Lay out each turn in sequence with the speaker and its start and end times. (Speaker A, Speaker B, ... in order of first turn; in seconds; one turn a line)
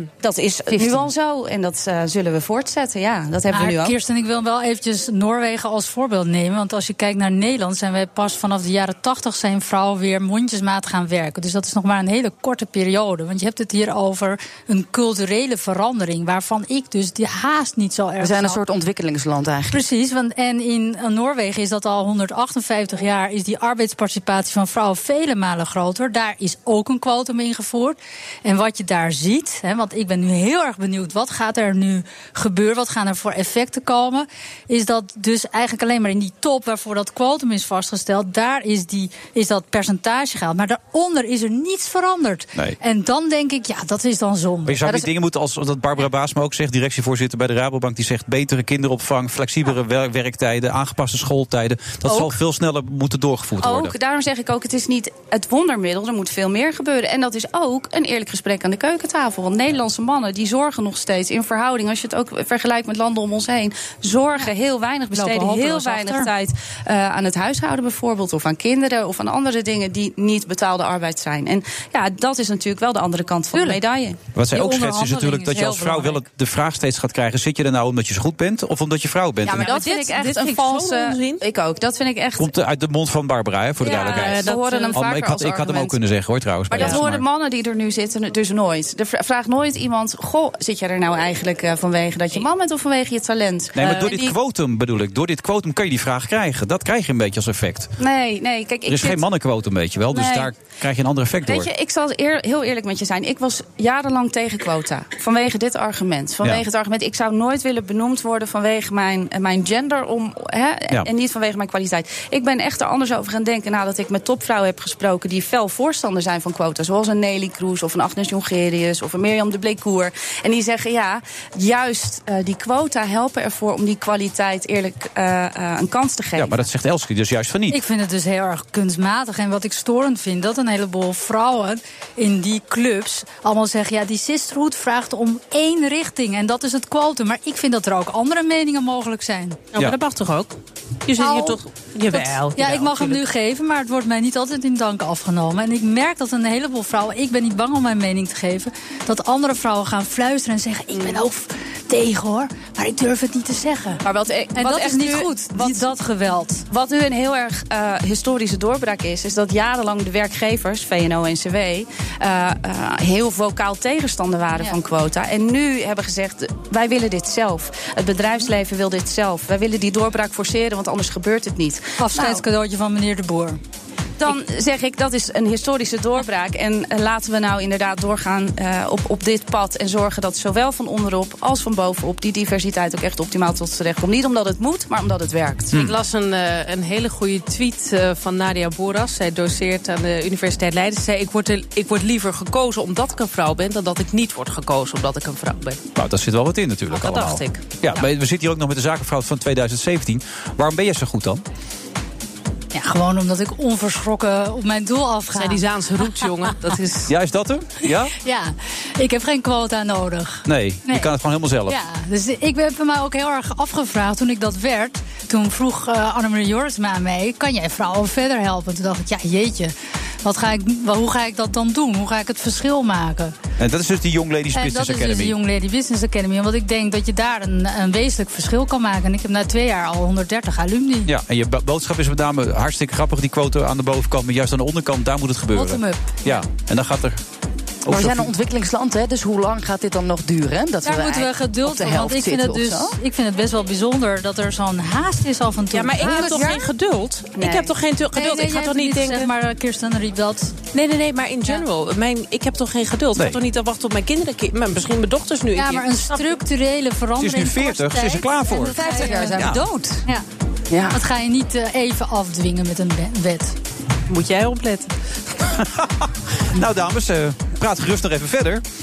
Speaker A: 0.2-1.1
Speaker B: 0.2-4.0
Speaker C: 3.5-18.6
Speaker A: 18.2-19.8
Speaker C: 19.7-44.9
Speaker D: 44.6-54.0
Speaker B: 53.6-74.2
Speaker C: 65.1-66.3
Speaker D: 74.3-79.7
Speaker C: 74.5-76.2
Speaker B: 79.4-82.5
Speaker E: 79.5-81.4
Speaker D: 82.4-87.2
Speaker B: 83.8-86.0
Speaker E: 83.8-85.0
Speaker B: 86.7-94.4
Speaker E: 86.8-87.0
Speaker D: 93.7-97.9
Speaker B: 98.0-99.2
Speaker D: 98.8-101.7
Speaker B: 100.1-100.5
Speaker B: 101.4-126.6
Speaker D: 126.3-127.8
Speaker C: 127.7-139.7
Speaker E: 139.7-140.6
Speaker E: 141.1-143.2
Speaker C: 141.2-141.6
Speaker C: 142.1-154.0
Speaker B: 154.0-155.9
Speaker C: 154.5-156.6
Speaker B: 156.7-172.4
Speaker C: 172.0-173.6
Speaker B: 174.2-185.7
Speaker E: 185.7-195.8
Speaker D: 195.9-201.4
Speaker E: 196.9-198.0
Speaker C: 202.7-205.6
Speaker E: 205.3-207.1
Speaker D: 207.1-208.1
Speaker C: 208.2-211.1
Speaker D: 210.4-211.8
Speaker C: 211.7-223.3
Speaker D: 223.6-225.4
Speaker C: 224.5-231.1
Speaker D: 231.1-237.2
Speaker C: 235.5-236.2
Speaker D: 237.8-238.3
Speaker A: 237.8-242.9
Speaker C: 240.8-246.5
Speaker E: 245.7-249.3
Speaker B: 247.4-247.7
Speaker C: 248.1-250.5
Speaker E: 250.7-256.4
Speaker C: 255.6-259.4
Speaker D: 257.2-259.6
Speaker A: 258.7-260.0
Speaker A: 260.7-261.0
Speaker C: 260.9-263.5
Speaker E: 264.1-264.9
Speaker D: 265.6-268.6